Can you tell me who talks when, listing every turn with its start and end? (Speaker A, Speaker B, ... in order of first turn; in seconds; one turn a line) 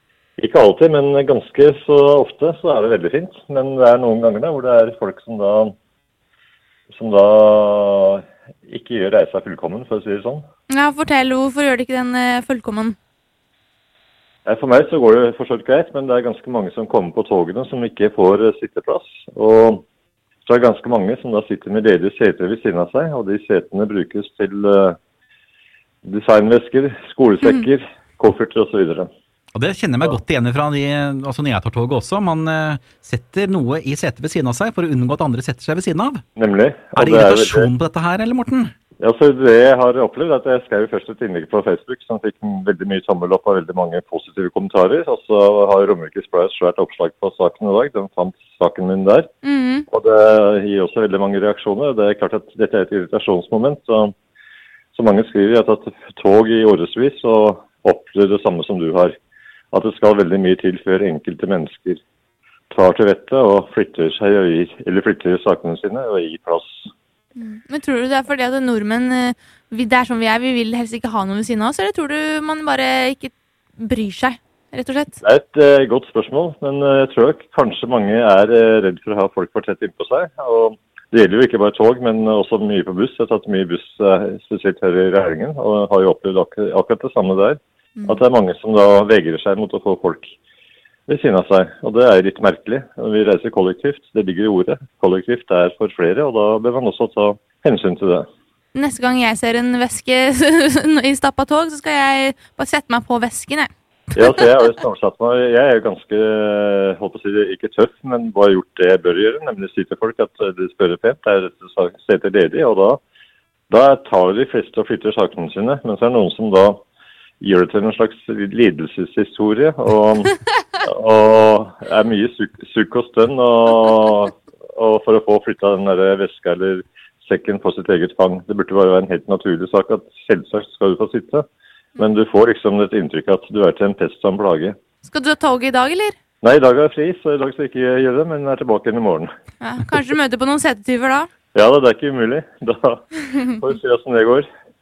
Speaker A: 0.4-5.7
Speaker A: 6.9-10.4
Speaker B: 10.7-12.9
Speaker A: 14.5-19.8
Speaker A: 20.5-24.9
Speaker A: 26.1-29.1
Speaker C: 29.5-36.2
Speaker A: 36.4-37.5
Speaker C: 36.9-38.7
Speaker A: 39.0-49.2
Speaker B: 49.4-49.8
Speaker A: 49.9-54.1
Speaker A: 54.9-59.1
Speaker A: 59.7-62.0
Speaker A: 62.7-66.8
Speaker B: 67.4-75.2
Speaker A: 75.2-90.3
Speaker A: 91.1-98.2
Speaker B: 98.7-103.7
Speaker A: 104.1-113.0
Speaker A: 113.7-116.8
Speaker A: 117.4-120.3
Speaker A: 120.9-131.4
Speaker A: 132.0-134.7
Speaker B: 135.1-136.2
Speaker A: 136.4-139.3
Speaker B: 139.6-141.3
Speaker A: 141.5-143.0
Speaker A: 143.6-144.5